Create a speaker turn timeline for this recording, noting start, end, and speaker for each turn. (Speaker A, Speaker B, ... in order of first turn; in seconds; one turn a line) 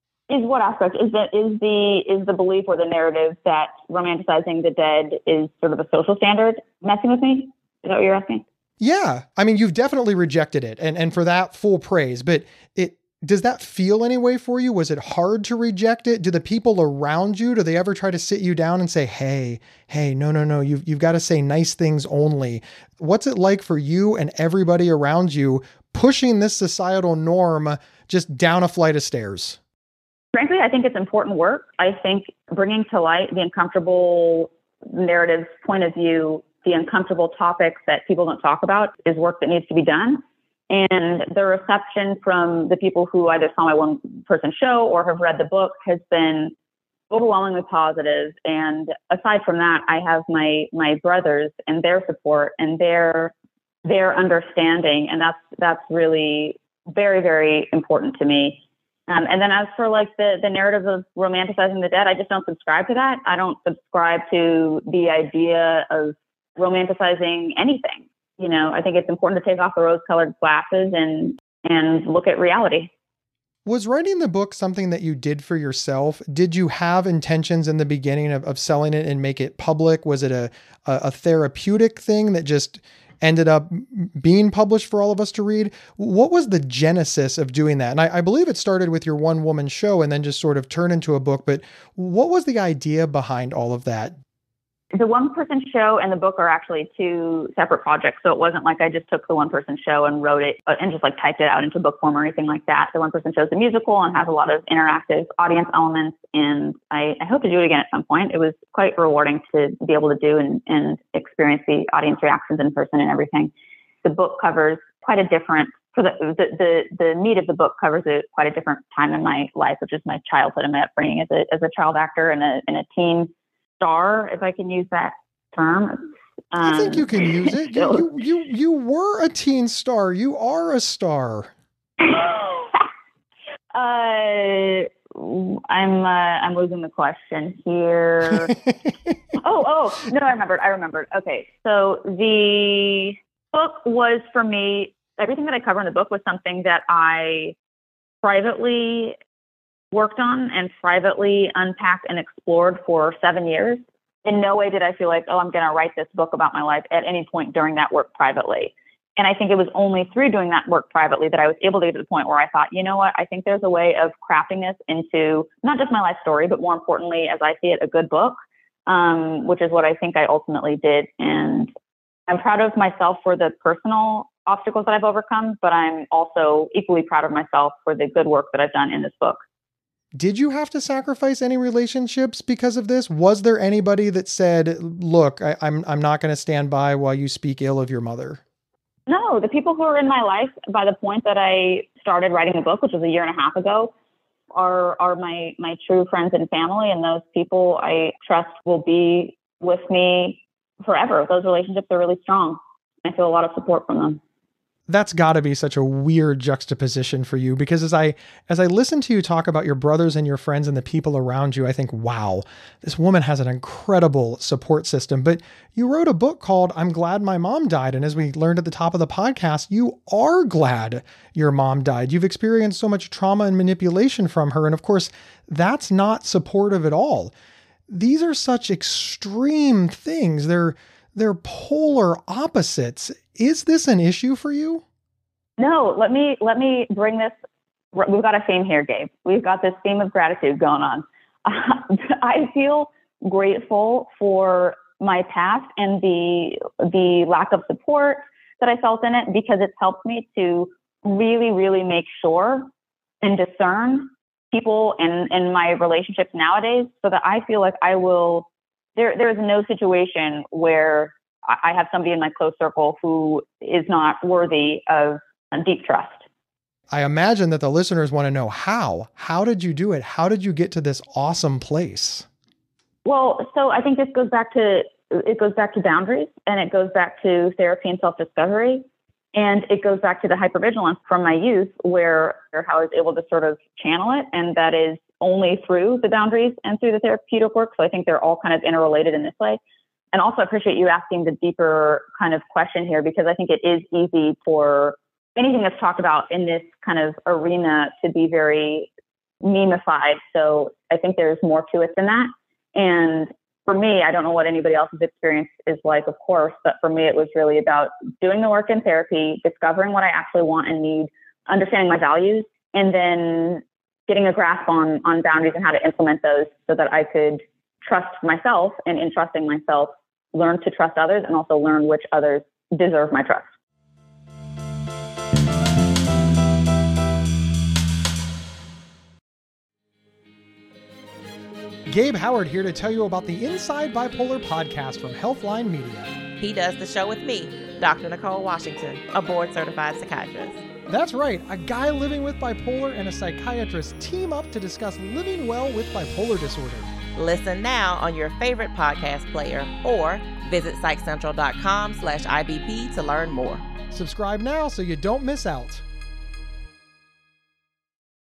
Speaker A: 0.3-8.4
Speaker B: 8.8-29.6
Speaker A: 30.3-46.5
Speaker A: 47.1-53.3
Speaker A: 53.9-72.9
Speaker B: 73.7-94.2
Speaker A: 94.9-113.5
Speaker A: 114.0-128.1
Speaker B: 126.6-131.5
Speaker A: 132.0-132.9
Speaker A: 133.7-138.5
Speaker A: 139.4-147.6
Speaker A: 148.2-149.2
Speaker A: 149.9-171.7
Speaker A: 172.3-179.4
Speaker B: 180.1-188.4
Speaker A: 189.1-193.9
Speaker A: 194.5-204.2
Speaker B: 204.9-227.3
Speaker B: 227.9-234.8
Speaker A: 235.6-237.3
Speaker A: 237.9-252.7
Speaker A: 253.2-266.2
Speaker B: 266.9-272.2
Speaker A: 273.0-289.6
Speaker A: 290.1-298.9
Speaker A: 299.4-323.5
Speaker B: 331.9-336.1
Speaker C: 336.4-340.6
Speaker B: 340.9-346.9
Speaker C: 347.1-353.6
Speaker B: 353.9-355.8